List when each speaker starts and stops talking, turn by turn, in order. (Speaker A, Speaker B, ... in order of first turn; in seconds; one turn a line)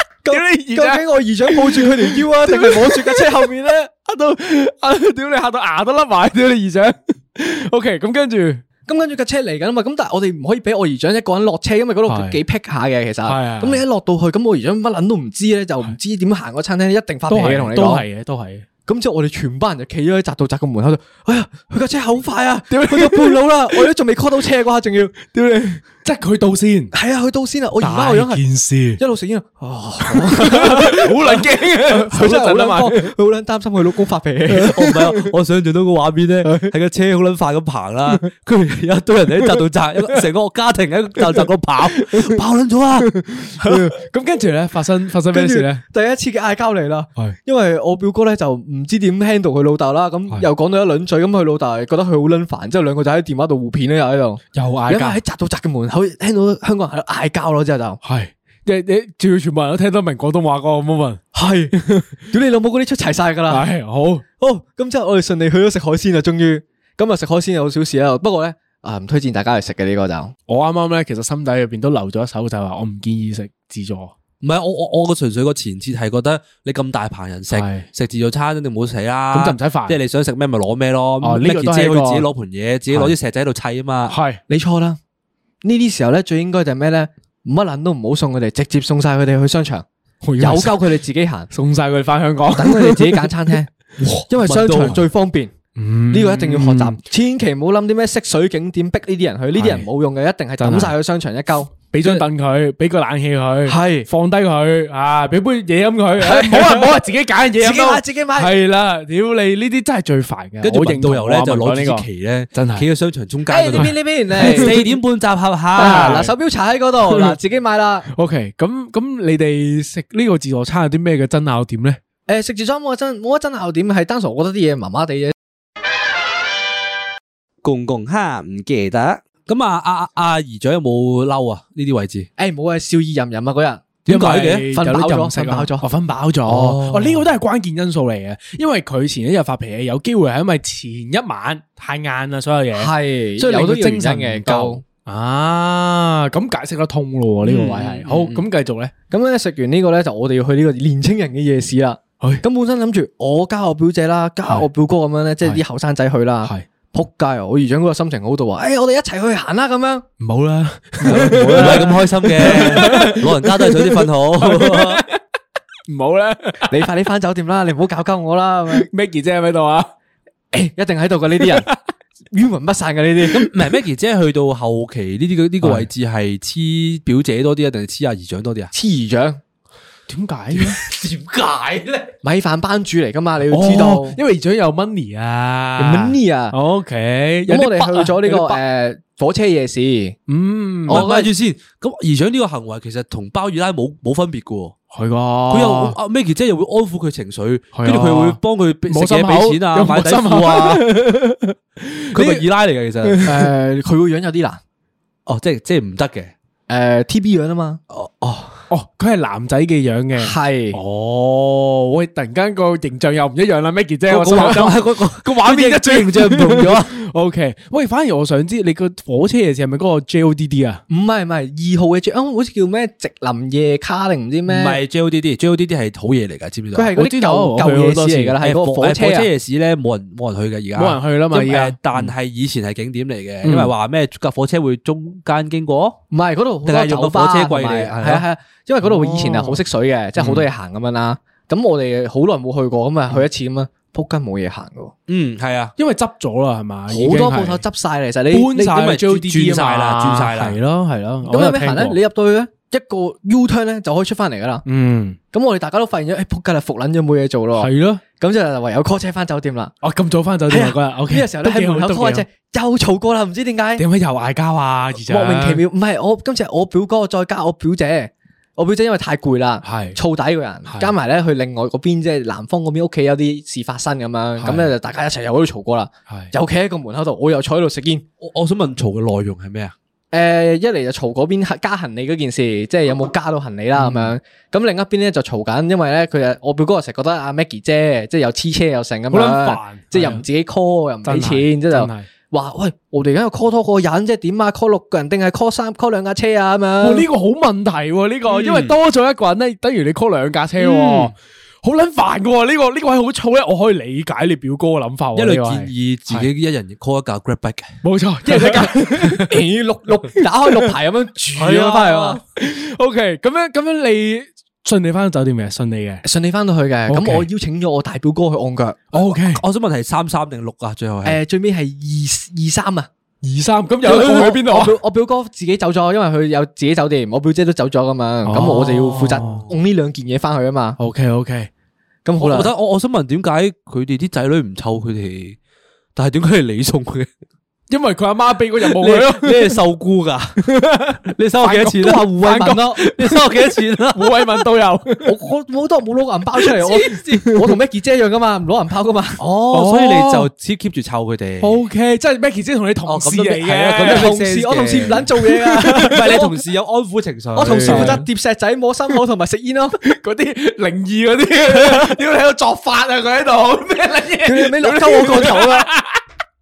Speaker A: 0.2-3.9
Speaker B: 0.3-8.6
Speaker A: 8.8-18.1
Speaker B: 12.1-12.4
Speaker B: 13.2-13.8
Speaker B: 17.3-18.6
Speaker A: 18.9-25.2
Speaker B: 22.7-23.9
Speaker B: 25.2-26.9
Speaker A: 26.9-28.4
Speaker B: 27.8-29.0
Speaker A: 29.0-35.2
Speaker B: 30.0-33.1
Speaker C: 34.6-43.1
Speaker B: 43.2-45.8
Speaker A: 43.6-43.9
Speaker A: 45.3-58.0
Speaker B: 54.5-55.2
Speaker B: 58.0-62.2
Speaker A: 61.3-61.8
Speaker A: 62.3-63.7
Speaker B: 63.5-64.2
Speaker A: 64.4-70.3
Speaker B: 70.5-74.1
Speaker C: 74.4-84.2
Speaker B: 77.5-77.9
Speaker B: 79.3-80.0
Speaker B: 81.2-82.3
Speaker B: 82.9-83.1
Speaker B: 84.1-84.4
Speaker A: 84.5-85.0
Speaker A: 85.6-89.8
Speaker B: 90.2-90.9
Speaker A: 90.4-91.5
Speaker B: 91.5-95.0
Speaker A: 92.5-93.7
Speaker C: 94.0-95.0
Speaker A: 94.3-95.5
Speaker B: 95.8-97.0
Speaker A: 96.1-102.2
Speaker B: 99.5-99.9
Speaker B: 100.6-100.9
Speaker B: 101.9-112.9
Speaker A: 103.7-104.1
Speaker A: 106.2-107.0
Speaker A: 107.6-108.5
Speaker C: 110.6-116.2
Speaker A: 113.5-114.8
Speaker B: 113.7-114.7
Speaker A: 115.7-118.1
Speaker B: 115.8-116.3
Speaker B: 117.1-117.3
Speaker B: 118.1-122.0
Speaker A: 122.3-125.3
Speaker C: 127.6-132.3
Speaker A: 132.4-134.0
Speaker C: 134.1-134.7
Speaker B: 134.1-148.9
Speaker A: 134.6-135.9
Speaker C: 136.5-137.2
Speaker A: 142.7-144.8
Speaker A: 147.4-148.2
Speaker A: 149.1-160.1
Speaker B: 160.2-165.2
Speaker C: 161.0-165.0
Speaker A: 161.1-161.9
Speaker A: 162.5-163.1
Speaker B: 165.9-166.7
Speaker A: 166.7-168.9
Speaker B: 168.7-169.9
Speaker A: 170.5-171.7
Speaker B: 171.4-171.8
Speaker A: 172.3-173.5
Speaker C: 173.3-178.7
Speaker B: 175.6-175.9
Speaker A: 178.7-179.4
Speaker B: 180.1-180.8
Speaker C: 180.5-182.1
Speaker A: 182.2-184.2
Speaker B: 183.5-188.6
Speaker A: 185.8-186.6
Speaker A: 187.5-190.2
Speaker B: 190.3-191.1
Speaker A: 190.9-191.3
Speaker C: 190.9-194.8
Speaker B: 194.9-195.9
Speaker C: 195.5-200.9
Speaker B: 197.7-202.4
Speaker C: 202.1-203.2
Speaker B: 203.0-203.3
Speaker A: 203.2-204.6
Speaker C: 205.2-206.3
Speaker A: 206.7-207.8
Speaker C: 207.9-208.4
Speaker B: 208.7-220.8
Speaker A: 210.2-210.8
Speaker C: 214.1-216.9
Speaker A: 220.9-224.8
Speaker C: 224.5-226.9
Speaker A: 226.7-229.3
Speaker B: 226.9-228.4
Speaker C: 228.4-236.0
Speaker B: 230.8-232.1
Speaker B: 233.4-233.7
Speaker A: 236.1-244.9
Speaker C: 236.6-238.2
Speaker B: 238.8-239.6
Speaker B: 240.2-240.4
Speaker C: 240.2-240.4
Speaker C: 245.1-245.7
Speaker B: 245.8-247.6
Speaker A: 246.9-248.6
Speaker B: 248.3-252.0
Speaker C: 248.5-250.6
Speaker A: 251.2-254.6
Speaker B: 254.7-255.2
Speaker A: 255.3-259.7
Speaker B: 257.6-258.0
Speaker B: 259.8-262.2
Speaker A: 260.5-263.8
Speaker B: 263.8-265.6
Speaker A: 265.1-278.0
Speaker B: 269.6-270.0
Speaker B: 270.7-270.9
Speaker B: 274.4-274.7
Speaker C: 278.2-279.7
Speaker A: 280.1-297.1
Speaker B: 283.7-284.1
Speaker B: 289.1-290.2
Speaker B: 291.0-292.1
Speaker B: 296.8-306.3
Speaker C: 298.3-298.8
Speaker C: 300.6-301.1
Speaker C: 305.1-307.8
Speaker B: 307.8-309.4
Speaker C: 308.3-308.6
Speaker A: 308.4-312.2
Speaker C: 311.3-312.2
Speaker B: 312.3-316.0
Speaker A: 316.0-318.9
Speaker B: 316.9-317.3
Speaker B: 318.9-319.4
Speaker C: 319.0-321.2
Speaker A: 321.0-322.9
Speaker B: 323.2-324.8
Speaker A: 323.8-330.8
Speaker B: 328.2-329.4
Speaker C: 329.0-329.5
Speaker B: 330.8-331.5
Speaker A: 332.0-332.5
Speaker C: 332.2-335.4
Speaker C: 335.9-337.1
Speaker B: 337.7-339.6
Speaker C: 338.6-340.5
Speaker B: 340.4-341.0
Speaker C: 341.0-344.4
Speaker A: 341.4-342.8
Speaker B: 342.8-343.2
Speaker B: 343.9-345.1
Speaker A: 345.0-349.2
Speaker B: 346.7-347.3
Speaker C: 346.9-347.2
Speaker C: 349.2-351.6
Speaker B: 349.5-350.3
Speaker B: 351.4-354.1
Speaker C: 352.8-355.1
Speaker A: 353.8-356.3
Speaker B: 355.1-356.2
Speaker C: 355.6-358.0
Speaker A: 357.3-359.8
Speaker B: 357.4-358.1
Speaker B: 359.8-366.0
Speaker A: 364.2-365.7